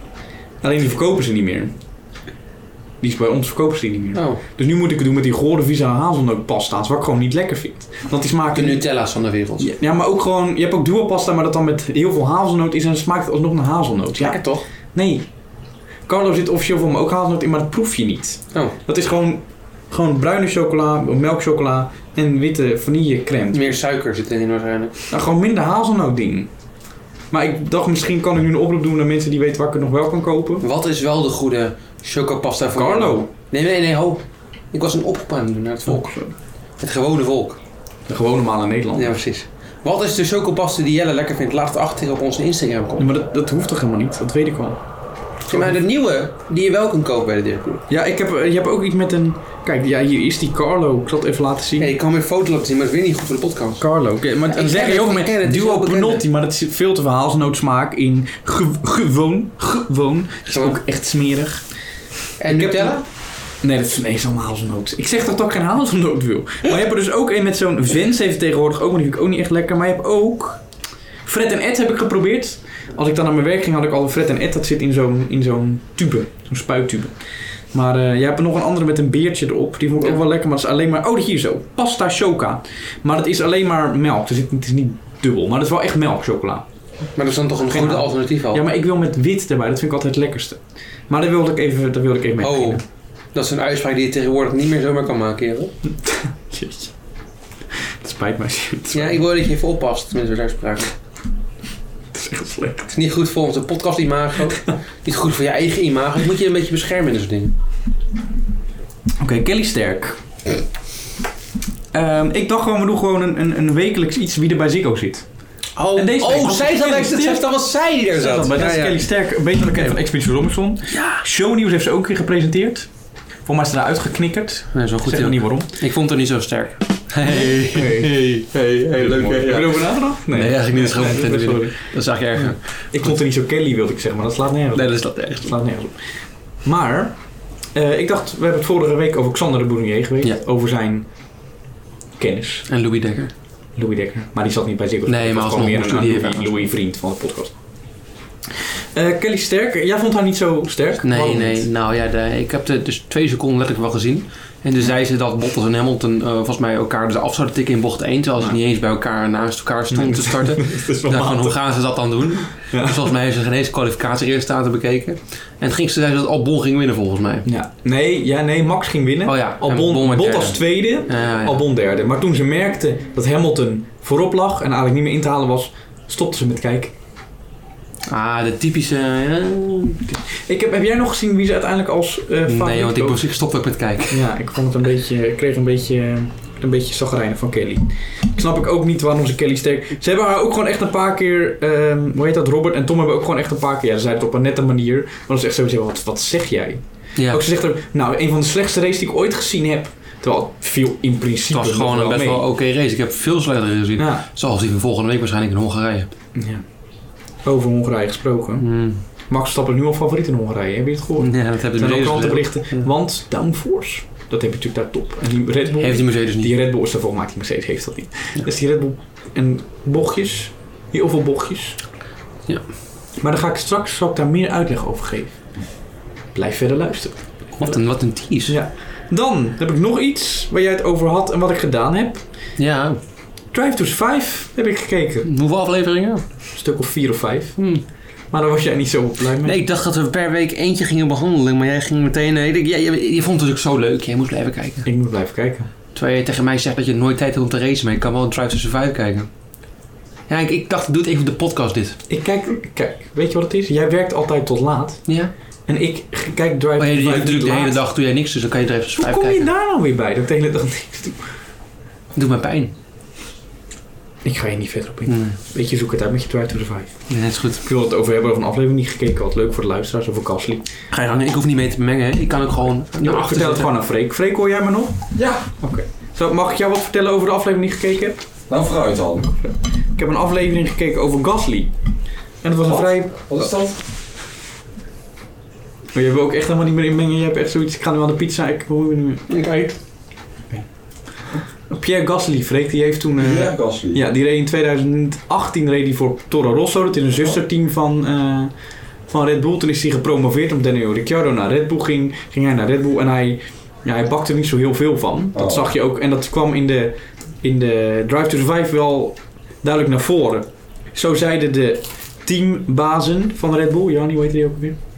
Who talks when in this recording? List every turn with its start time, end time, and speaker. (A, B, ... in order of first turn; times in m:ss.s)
0:00.6-0:01.7 A
0:03.0-0:08.8 A
0:04.1-0:04.4 B
0:08.5-0:09.7 B
0:09.6-0:15.3 A
0:14.2-0:14.6 B
0:16.1-0:23.7 A
0:23.5-0:25.0 B
0:25.1-0:26.5 A
0:27.3-0:30.6 A
0:30.6-0:36.2 B
0:32.8-0:33.3 A
0:35.8-0:36.3 A
0:36.8-0:37.6 B
0:38.1-0:39.2 A
0:38.9-0:43.1 B
0:43.0-0:44.8 A
0:45.5-0:47.8 B
0:45.5-0:45.8 A
0:47.9-0:51.9 A
0:51.8-0:53.8 B
0:53.8-1:01.6 A
0:54.4-0:56.2 B
1:00.5-1:00.8 B
1:02.4-1:03.0 B
1:02.5-1:03.0 A
1:03.6-1:10.6 A
1:11.2-1:17.2 A
1:17.7-1:26.6 A
1:27.2-1:28.7 B
1:27.7-1:32.8 A
1:32.4-1:32.8 B
1:33.3-1:35.7 B
1:36.0-1:36.9 A
1:38.0-1:39.2 A
1:38.9-1:40.9 B
1:42.1-1:42.9 A
1:42.9-1:47.5 B
1:49.2-1:50.2 A
1:51.9-1:55.3 A
1:55.8-1:59.0 B
1:55.9-1:57.5 A
1:58.1-2:02.9 A
2:00.9-2:01.2 B
2:03.4-2:05.7 A
2:04.7-2:13.1 B
2:07.3-2:08.2 A
2:09.0-2:16.0 A
2:14.7-2:15.5 B
2:16.6-2:21.1 A
2:22.2-2:22.7 A
2:22.7-2:23.3 B
2:23.8-2:27.6 A
2:25.1-2:26.5 B
2:28.6-2:31.7 A
2:31.0-2:47.5 B
2:39.9-2:41.6 A
2:42.6-2:43.1 A
2:47.4-2:56.9 A
2:49.2-2:51.6 B
2:58.1-3:00.2 B
3:00.4-3:03.2 A
3:02.4-3:04.2 B
3:04.1-3:22.4 A
3:17.2-3:17.4 B
3:21.5-3:26.1 B
3:24.0-3:24.2 A
3:26.3-3:26.6 A
3:27.4-3:28.7 A
3:28.6-3:29.0 B
3:29.3-3:41.8 A
3:31.2-3:32.9 B
3:35.8-3:36.5 B
3:43.2-3:45.5 A
3:46.3-3:47.8 A
3:47.6-3:48.6 B
3:48.4-3:52.2 A
3:52.6-3:53.0 B
3:53.5-3:55.3 A
3:55.2-3:56.2 B
3:56.5-3:57.7 A
3:57.6-3:57.8 B
3:58.3-3:59.6 A
3:59.4-4:04.9 B
4:04.8-4:05.7 A
4:05.9-4:09.3 B
4:10.3-4:12.0 B
4:12.1-4:15.1 A
4:15.1-4:15.3 B
4:15.7-4:17.8 A
4:16.8-4:19.5 B
4:19.0-4:21.2 A
4:22.1-4:22.7 B
4:24.2-4:26.9 A
4:25.1-4:25.4 B
4:27.1-4:27.6 B
4:27.6-4:30.7 A
4:30.9-4:33.7 B
4:33.0-4:38.2 A
4:35.1-4:35.5 C
4:38.5-4:39.3 C
4:39.4-4:41.7 A
4:42.4-4:43.7 A
4:42.7-4:43.8 C
4:45.9-4:49.3 A
4:49.3-4:49.8 B
4:51.7-4:58.5 A
4:53.2-4:54.0 C
4:59.1-5:14.8 A
5:05.3-5:05.6 C